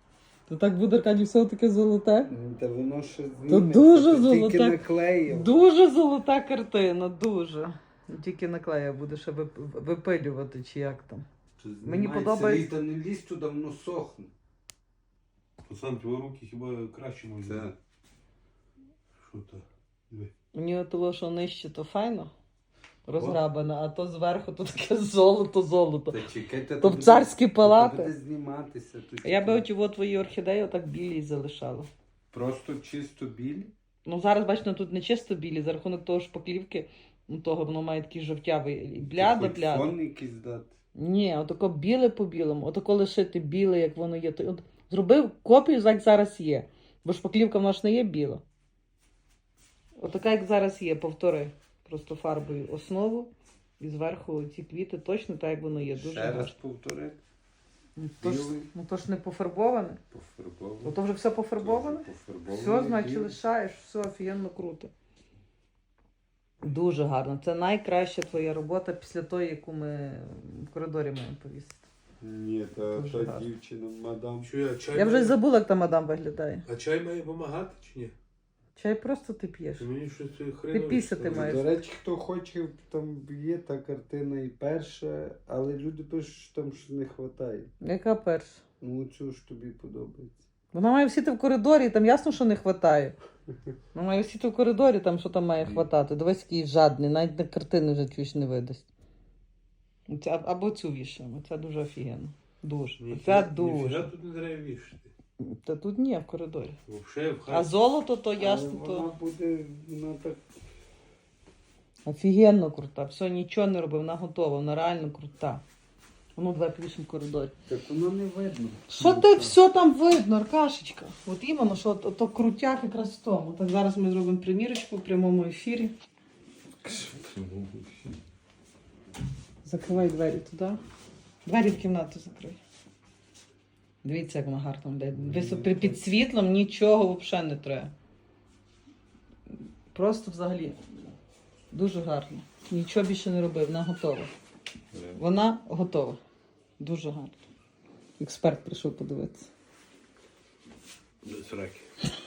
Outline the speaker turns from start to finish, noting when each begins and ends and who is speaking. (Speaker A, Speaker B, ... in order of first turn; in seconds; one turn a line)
Speaker A: 0.5-2.3
Speaker B: 2.3-5.6
Speaker A: 3.5-11.2
Speaker B: 11.6-14.3
Speaker A: 11.8-12.7
Speaker C: 15.6-17.7
Speaker B: 17.4-17.8
Speaker C: 19.2-20.3
Speaker A: 20.5-22.3
Speaker A: 23.1-26.2
Speaker B: 26.1-29.7
Speaker A: 26.8-28.1
Speaker A: 29.2-31.9
Speaker B: 32.3-33.7
Speaker A: 34.0-40.0
Speaker B: 39.0-40.7
Speaker A: 41.0-48.4
Speaker A: 50.0-56.5
Speaker B: 55.9-57.2
Speaker A: 58.0-60.0
Speaker B: 58.2-58.7
Speaker B: 60.1-61.0
Speaker A: 60.8-64.9
Speaker B: 61.6-63.4
Speaker A: 66.6-71.8
Speaker B: 72.2-74.5
Speaker A: 72.9-73.5
Speaker C: 74.4-75.4
Speaker A: 74.9-76.7
Speaker C: 76.6-78.1
Speaker A: 78.8-79.9
Speaker C: 79.8-81.6
Speaker A: 80.7-81.7
Speaker B: 81.3-87.7
Speaker A: 87.8-88.6
Speaker B: 88.8-90.4
Speaker A: 90.7-93.2
Speaker A: 93.9-98.8
Speaker A: 100.1-104.1
Speaker C: 103.0-105.1
Speaker A: 105.4-106.8
Speaker C: 106.9-107.7
Speaker A: 107.5-109.1
Speaker B: 108.4-110.4
Speaker A: 112.0-115.6
Speaker A: 116.3-117.5
Speaker B: 117.7-119.6
Speaker A: 118.9-125.9
Speaker B: 126.8-128.1
Speaker A: 129.6-130.8
Speaker A: 131.4-132.6
Speaker A: 134.0-137.9
Speaker B: 135.2-136.0
Speaker A: 139.9-140.8
Speaker A: 141.7-144.3
Speaker A: 145.1-146.2
Speaker A: 146.8-147.3
Speaker A: 148.2-149.5
Speaker C: 151.2-151.8